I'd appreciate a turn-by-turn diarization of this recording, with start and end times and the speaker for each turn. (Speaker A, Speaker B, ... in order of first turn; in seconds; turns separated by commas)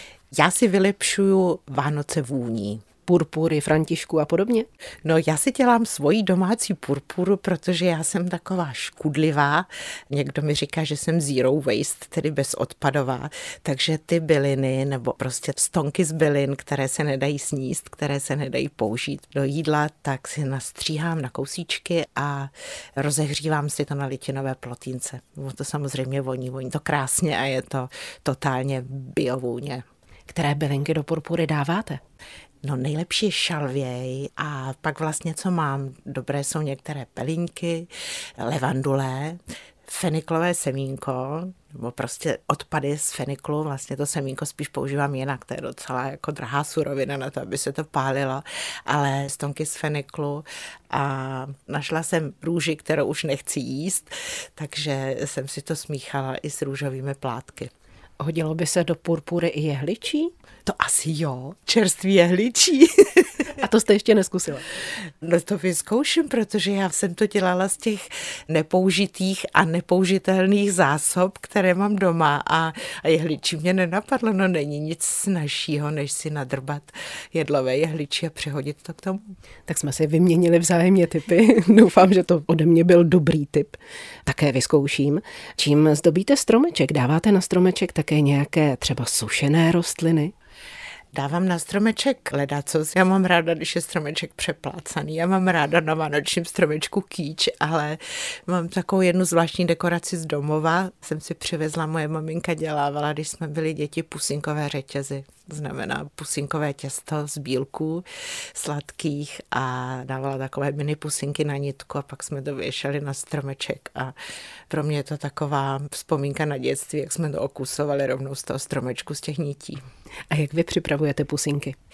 Speaker A: 0.3-2.9, Speaker B: 3.0-4.7, Speaker A: 5.0-29.8, Speaker B: 30.3-32.0, Speaker A: 32.6-57.7, Speaker B: 58.2-60.3, Speaker A: 60.6-63.4, Speaker B: 63.5-64.7, Speaker A: 65.2-79.3, Speaker B: 79.7-90.3, Speaker A: 91.1-114.1, Speaker A: 114.7-119.8, Speaker B: 120.3-121.8